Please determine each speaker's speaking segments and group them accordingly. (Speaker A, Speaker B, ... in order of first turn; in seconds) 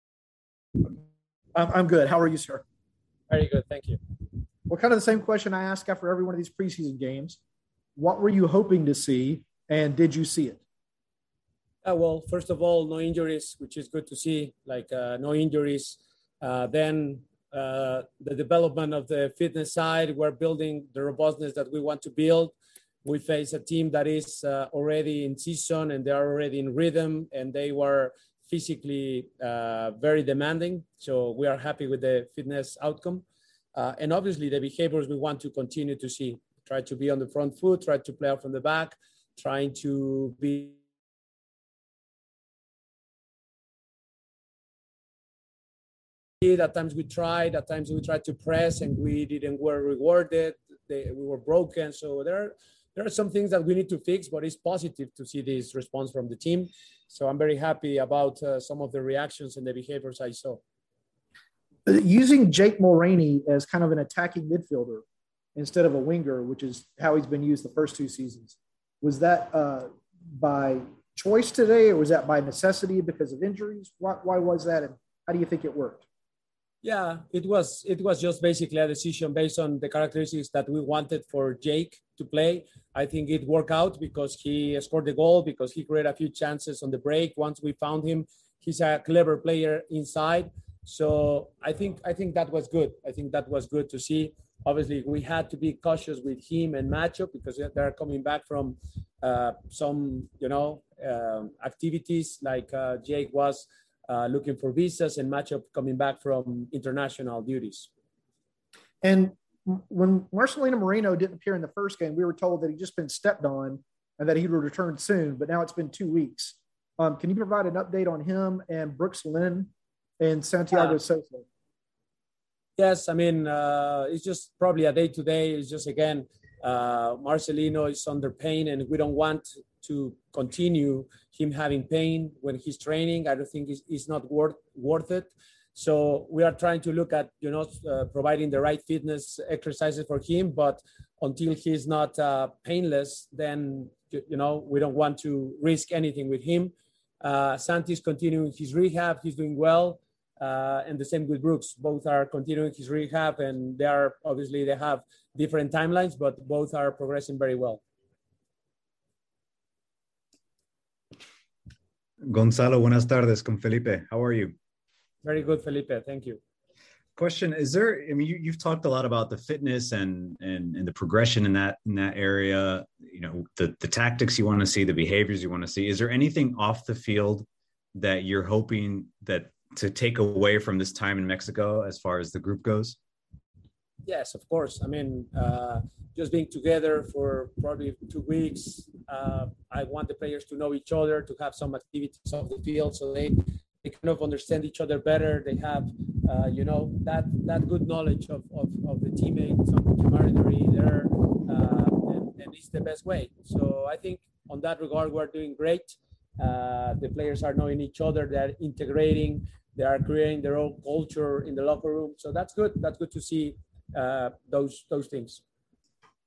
Speaker A: 1.6-2.6, 4.7-7.4, 8.0-10.6, 61.9-65.0, 65.5-76.0, 109.0-121.5
Speaker B: 3.3-4.0, 11.8-40.8, 46.4-60.6, 76.8-107.9, 120.7-121.0, 122.8-157.8, 165.2-166.4, 184.1-215.4
Speaker C: 162.3-164.6, 167.2-183.0